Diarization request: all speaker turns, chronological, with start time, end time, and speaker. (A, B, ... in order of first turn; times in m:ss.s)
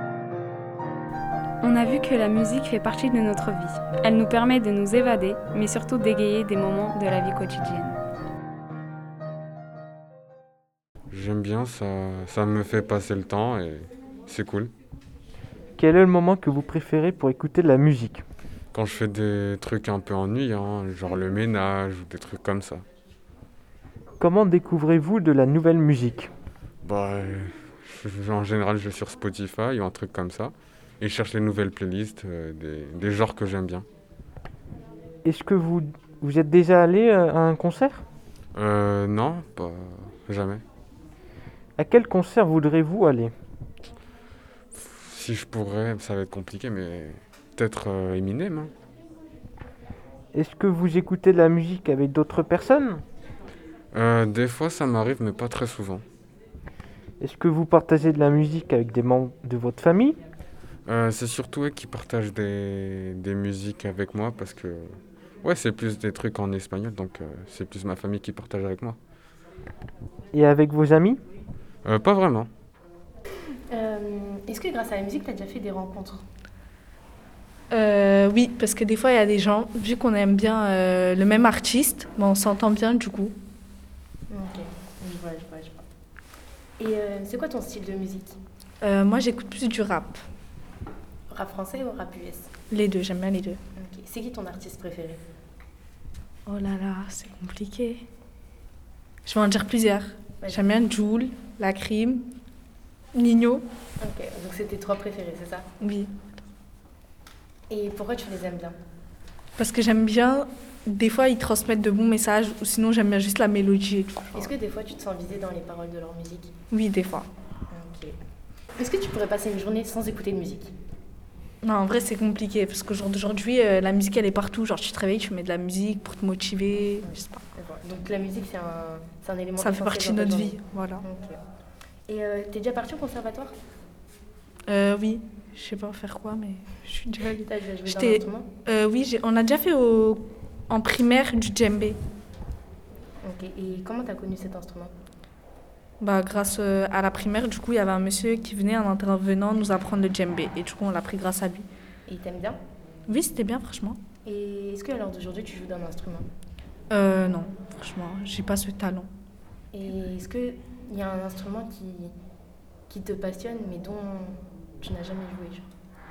0:01.6-0:08.0 A
0:11.1-0:14.7 B
0:15.8-0:18.2 C
0:18.7-0:22.8 B
0:24.2-0:26.3 C
0:26.8-0:33.8 B
0:35.2-0:38.0 C
0:38.5-0:40.6 B
0:41.8-0:43.3 C
0:44.8-0:48.7 B
0:50.3-0:53.0 C
0:53.9-0:56.0 B
0:57.2-1:00.2 C
1:00.9-1:04.8 B
1:05.4-1:09.0 B
1:10.3-1:11.2 C
1:11.8-1:12.5 B
1:13.7-1:16.2 D
1:17.7-1:23.4 E
1:24.3-1:25.8 D
1:26.8-1:28.4 D
1:28.8-1:30.2 E
1:31.3-1:32.5 D
1:32.7-1:33.6 E
1:33.8-1:35.2 D
1:36.5-1:38.0 E
1:39.2-1:42.3 E
1:40.4-1:40.7 D
1:43.1-1:43.6 E
1:44.0-1:45.7 D
1:45.8-1:46.1 E
1:47.7-1:48.8 D
1:49.6-1:54.5 E
1:54.3-1:56.5 D
1:56.7-1:57.3 E
1:57.7-1:58.1 D
1:58.8-2:00.7 D
2:01.6-2:07.4 E
2:07.0-2:11.4 D
2:09.6-2:11.0 E
2:12.1-2:13.6 D
2:14.7-2:22.0 E
2:17.3-2:18.5 D
2:23.2-2:24.9 D
2:26.0-2:31.6 E
2:32.1-2:32.6 D
2:33.1-2:34.0 E
2:34.2-2:36.2 D
2:36.9-2:39.1 E
2:39.7-2:42.1 D
2:42.9-2:45.7 D